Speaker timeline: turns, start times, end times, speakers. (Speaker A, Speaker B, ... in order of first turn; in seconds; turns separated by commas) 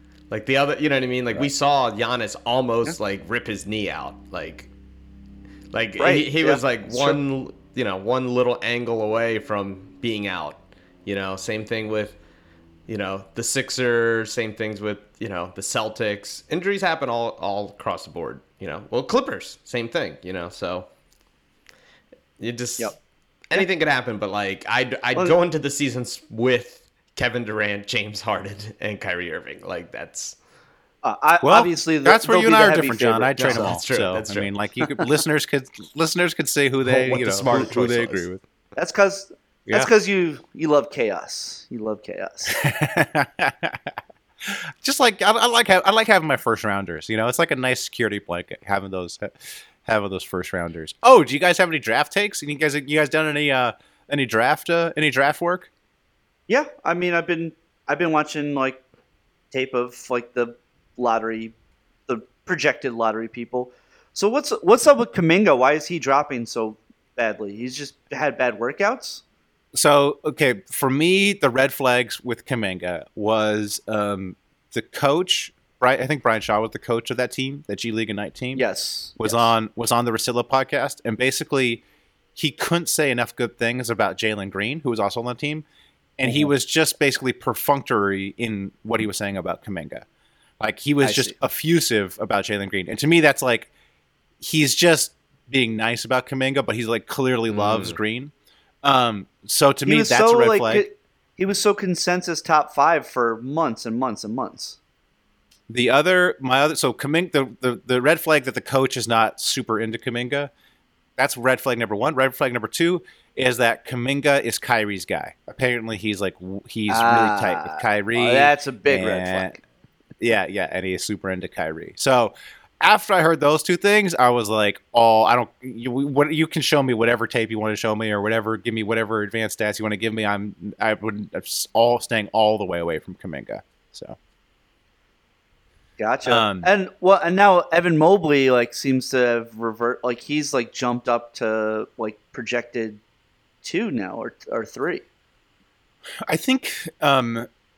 Speaker A: 0.3-4.7, Speaker A: 5.7-12.2, Speaker B: 6.0-7.2, Speaker A: 12.9-20.9, Speaker A: 22.4-22.9, Speaker A: 23.5-30.4, Speaker B: 31.0-33.7, Speaker C: 31.4-38.4, Speaker A: 33.4-34.5, Speaker A: 36.8-38.3, Speaker B: 38.7-42.5, Speaker C: 42.5-55.7, Speaker B: 56.5-58.8, Speaker B: 59.5-61.5, Speaker B: 62.1-69.2, Speaker C: 69.7-78.6, Speaker B: 78.5-79.5, Speaker C: 79.2-81.8, Speaker C: 82.3-85.6, Speaker C: 86.2-90.0, Speaker C: 90.6-93.7, Speaker B: 91.0-91.3, Speaker C: 94.4-98.3, Speaker A: 97.5-98.0, Speaker C: 98.8-100.8, Speaker B: 99.8-104.8, Speaker C: 105.7-110.5, Speaker C: 111.2-119.5, Speaker B: 116.9-119.6, Speaker C: 120.2-134.2, Speaker B: 136.0-143.0, Speaker C: 136.2-136.7, Speaker B: 143.6-145.0, Speaker C: 146.2-147.5